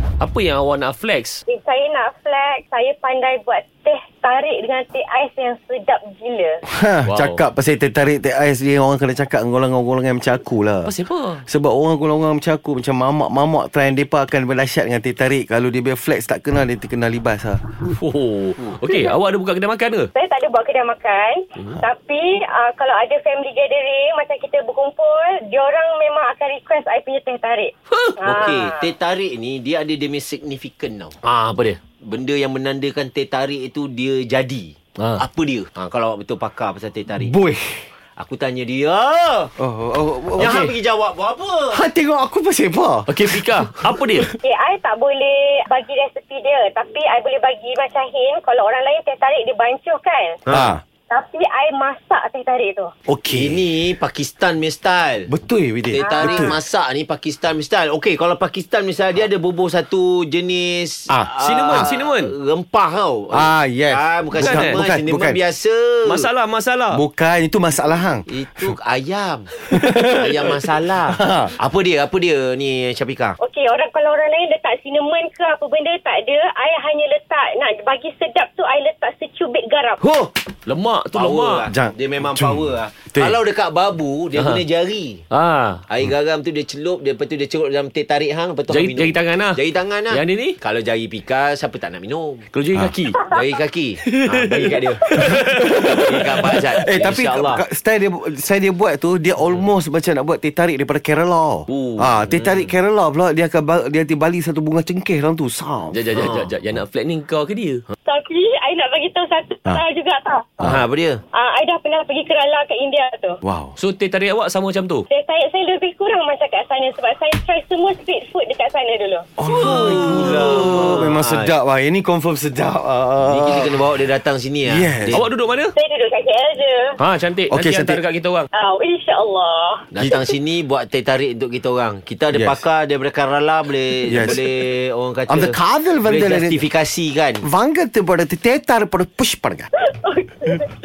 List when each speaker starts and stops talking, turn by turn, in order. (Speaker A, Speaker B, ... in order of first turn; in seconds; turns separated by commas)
Speaker A: 0.2-1.4, Speaker B: 1.5-6.6, Speaker C: 6.6-10.9, Speaker A: 7.0-7.4, Speaker A: 10.8-11.4, Speaker C: 11.5-17.6, Speaker A: 17.8-20.1, Speaker B: 20.1-28.9, Speaker A: 27.9-28.5, Speaker D: 28.2-31.2, Speaker A: 31.2-31.8, Speaker D: 32.0-37.3, Speaker C: 37.1-37.9, Speaker D: 38.2-39.5, Speaker C: 39.6-40.7, Speaker D: 40.4-41.8, Speaker C: 41.7-44.4, Speaker A: 43.1-44.3, Speaker B: 44.4-50.4, Speaker D: 50.5-50.7, Speaker C: 50.5-50.8, Speaker B: 51.1-52.9, Speaker C: 53.0-53.7, Speaker D: 53.3-55.3, Speaker C: 55.3-56.5, Speaker D: 55.9-66.3, Speaker B: 56.0-56.5, Speaker C: 61.1-61.9, Speaker A: 61.4-62.3, Speaker C: 63.3-65.4, Speaker A: 64.4-64.8, Speaker A: 66.0-67.0, Speaker C: 66.9-68.7, Speaker D: 68.3-73.4, Speaker C: 69.6-71.5, Speaker B: 73.4-80.1, Speaker A: 80.6-81.7, Speaker D: 81.1-85.2, Speaker C: 81.7-83.4, Speaker A: 84.3-84.6, Speaker A: 85.3-85.8, Speaker D: 85.9-92.5, Speaker A: 88.7-90.6, Speaker A: 92.5-93.3, Speaker D: 93.2-95.0, Speaker A: 94.1-97.5, Speaker C: 95.1-96.0, Speaker D: 96.0-97.6, Speaker C: 96.8-106.0, Speaker A: 101.7-102.1, Speaker D: 102.3-102.7, Speaker A: 105.9-107.8, Speaker D: 106.1-106.5, Speaker B: 108.0-110.6, Speaker D: 110.6-111.2, Speaker B: 111.3-113.4, Speaker C: 113.4-113.8, Speaker A: 113.8-115.0, Speaker B: 115.1-119.3, Speaker C: 119.4-123.8, Speaker A: 119.4-121.0, Speaker D: 119.5-121.5, Speaker D: 123.2-125.3, Speaker C: 124.6-125.2, Speaker A: 125.1-125.7, Speaker B: 125.7-127.0, Speaker A: 127.0-128.5, Speaker C: 127.5-128.0, Speaker B: 128.5-129.9, Speaker D: 129.9-137.4, Speaker C: 132.3-132.6, Speaker C: 134.0-134.5, Speaker C: 135.3-136.6, Speaker C: 137.4-139.7, Speaker B: 139.8-140.7